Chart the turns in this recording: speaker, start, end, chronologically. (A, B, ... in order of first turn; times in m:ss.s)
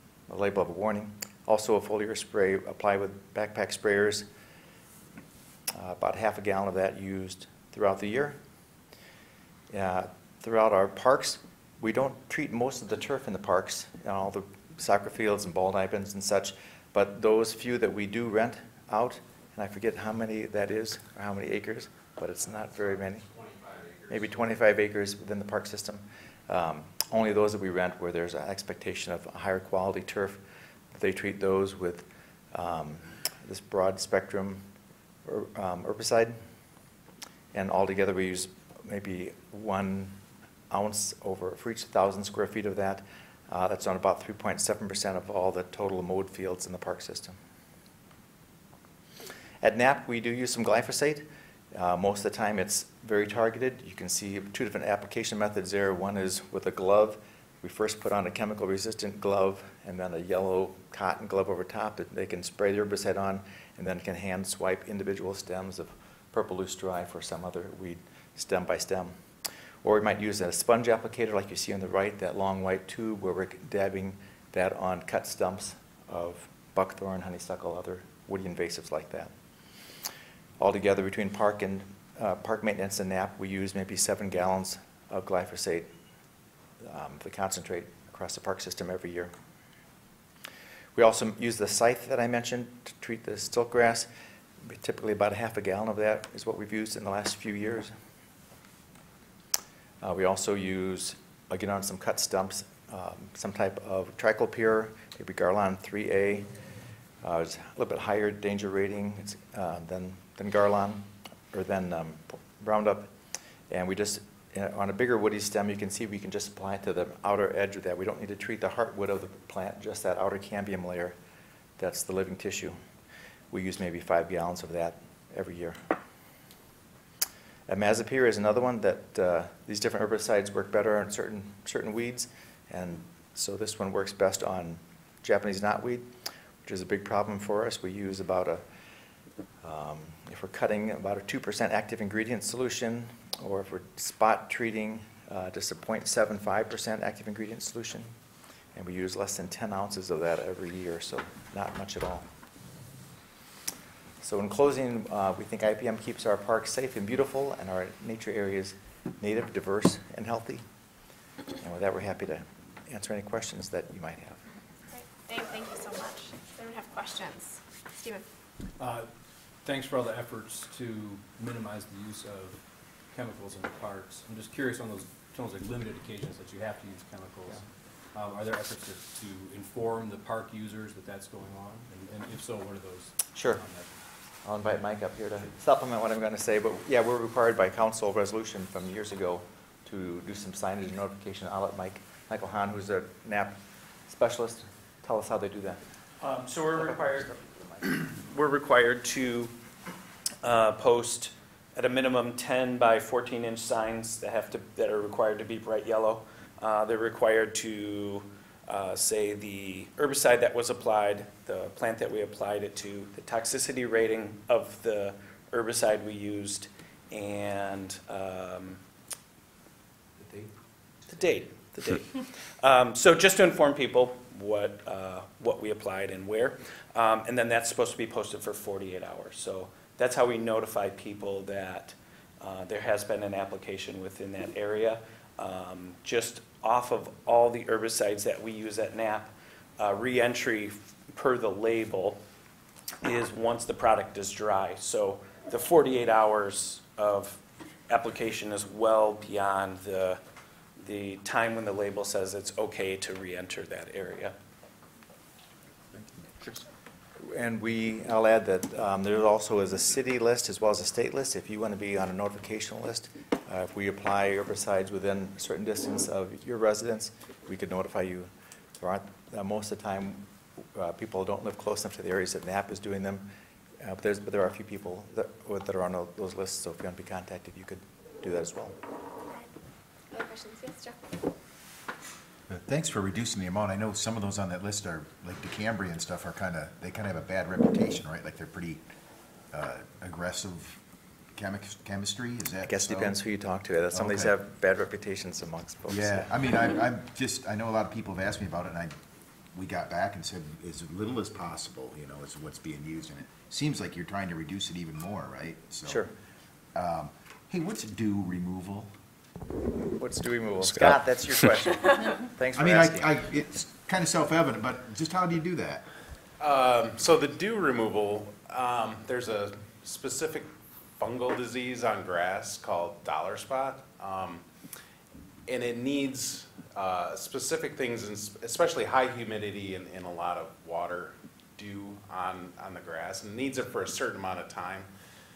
0:00.3-0:04.3 A
0:05.7-0:08.4 A
0:09.7-0:23.3 A
0:24.1-0:30.4 A
0:30.9-0:34.7 A
0:35.2-0:36.4 A
0:37.5-0:47.4 A
0:49.6-1:09.2 A
1:09.8-1:19.3 A
1:20.6-1:25.9 A
1:26.8-1:29.3 A
1:31.0-1:34.1 A
1:34.6-1:38.0 A
1:40.0-1:46.5 A
1:47.2-1:53.1 A
1:53.7-2:01.2 A
2:01.8-2:02.8 A
2:03.5-2:06.0 A
2:07.7-2:18.6 A
2:19.6-2:28.1 A
2:28.7-2:32.3 A
2:34.2-2:40.7 A
2:41.6-2:44.4 A
2:44.9-2:48.2 B
2:48.8-2:49.1 C
2:49.6-3:04.0 C
3:03.3-3:03.6 A
3:04.4-3:13.6 A
3:14.1-3:15.8 A
3:16.2-3:19.5 D
3:16.7-3:17.8 A
3:20.4-3:38.8 D
3:40.2-3:40.5 C
3:41.1-4:02.2 D
4:03.0-4:10.2 D
4:10.8-4:14.4 D
4:17.2-4:38.8 A
4:40.1-4:41.1 B
4:42.5-4:48.8 E
4:49.5-4:50.8 E
4:51.4-4:53.2 E
4:52.7-4:56.3 A
4:53.9-4:54.3 E
4:55.9-4:59.0 E
4:59.5-5:06.0 E
5:05.9-5:06.1 A
5:06.7-5:08.9 E
5:09.9-5:13.2 A
5:12.5-5:15.9 E
5:16.4-5:24.5 F
5:25.5-5:34.9 F